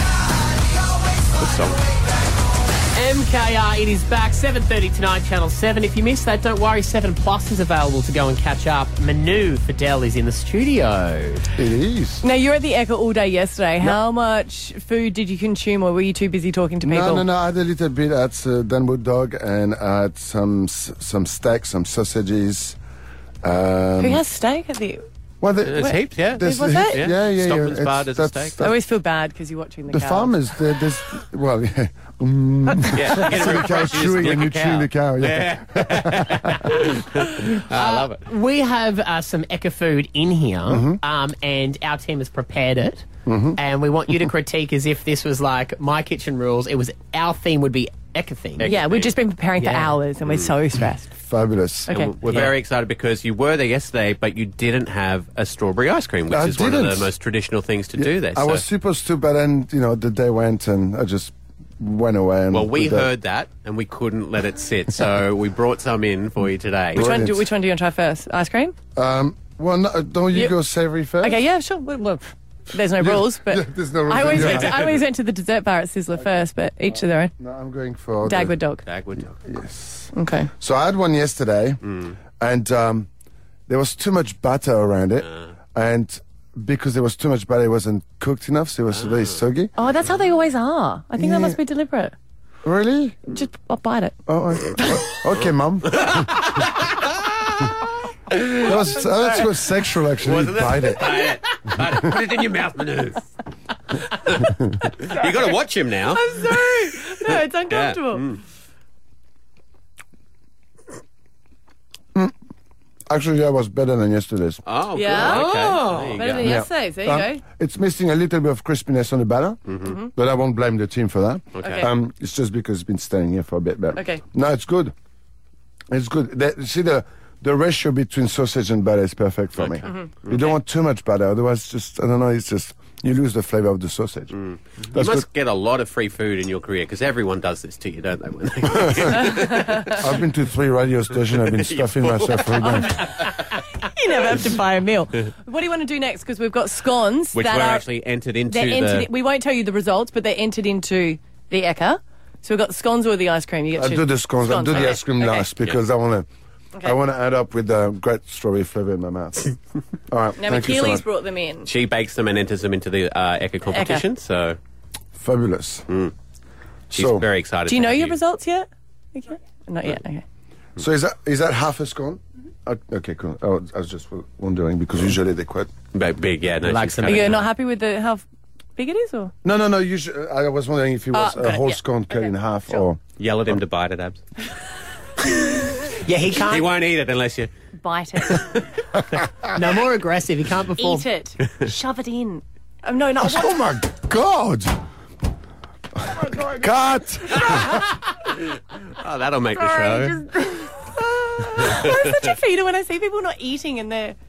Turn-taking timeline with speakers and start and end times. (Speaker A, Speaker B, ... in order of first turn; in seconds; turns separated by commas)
Speaker A: 1.4-1.8, Speaker B: 2.9-11.5, Speaker C: 11.6-12.2, Speaker D: 12.2-17.3, Speaker C: 16.8-22.8, Speaker C: 23.4-24.2, Speaker D: 24.0-25.0, Speaker C: 25.4-28.8, Speaker A: 25.6-28.6, Speaker D: 26.4-27.0, Speaker D: 28.6-30.4, Speaker C: 29.9-36.8, Speaker A: 32.9-38.2, Speaker B: 37.2-48.8, Speaker C: 40.7-41.0, Speaker C: 43.3-43.6, Speaker A: 48.6-49.1, Speaker D: 48.6-51.1, Speaker B: 49.6-50.0, Speaker C: 51.2-52.5, Speaker D: 51.9-52.1, Speaker A: 51.9-58.6, Speaker C: 56.3-57.1, Speaker C: 58.0-63.1, Speaker A: 62.5-67.1, Speaker C: 67.0-67.5, Speaker D: 67.0-68.8, Speaker C: 69.0-71.4, Speaker D: 71.2-77.3, Speaker C: 73.0-75.0, Speaker C: 77.4-78.5, Speaker D: 78.2-78.8, Speaker A: 78.8-79.4, Speaker C: 79.4-83.1, Speaker D: 80.1-80.5, Speaker C: 83.7-89.7, Speaker A: 88.9-89.4, Speaker D: 89.8-92.1, Speaker C: 91.2-91.6, Speaker C: 92.6-93.2, Speaker D: 93.3-94.2, Speaker C: 94.3-96.7, Speaker D: 94.8-95.1, Speaker A: 95.9-97.8, Speaker A: 98.3-98.8, Speaker C: 98.5-101.9, Speaker A: 100.2-103.3, Speaker A: 104.0-108.4, Speaker D: 106.1-108.3, Speaker C: 113.1-114.6, Speaker A: 114.7-116.6, Speaker D: 114.9-115.5, Speaker B: 115.2-116.3, Speaker D: 116.1-117.4, Speaker C: 116.4-124.9, Speaker A: 119.7-120.0, Speaker A: 121.5-121.9, Speaker D: 121.6-121.9, Speaker D: 124.0-124.2, Speaker C: 125.9-134.4, Speaker A: 129.6-130.6, Speaker A: 134.3-139.9, Speaker C: 134.9-135.3, Speaker C: 138.7-139.1, Speaker C: 139.8-143.2, Speaker A: 141.3-143.6, Speaker D: 143.5-147.9, Speaker A: 147.3-149.1, Speaker D: 148.5-155.5, Speaker C: 153.8-156.3, Speaker C: 156.8-159.6, Speaker C: 160.1-161.1, Speaker D: 160.4-161.7, Speaker A: 161.6-164.6, Speaker D: 163.7-164.1, Speaker C: 165.2-165.9, Speaker A: 166.9-168.2, Speaker C: 166.9-167.2, Speaker D: 167.7-170.2, Speaker C: 170.8-175.7, Speaker A: 175.9-177.5, Speaker B: 176.7-177.4, Speaker D: 177.1-178.2, Speaker D: 178.8-179.3, Speaker C: 179.4-183.0, Speaker D: 181.1-182.3, Speaker A: 183.2-184.2, Speaker B: 185.9-186.7, Speaker A: 186.3-187.5, Speaker D: 187.8-188.7, Speaker B: 189.5-191.1, Speaker D: 190.8-193.6, Speaker C: 193.2-194.8, Speaker C: 196.0-197.8, Speaker A: 197.6-200.3, Speaker D: 199.6-204.2, Speaker A: 201.6-202.1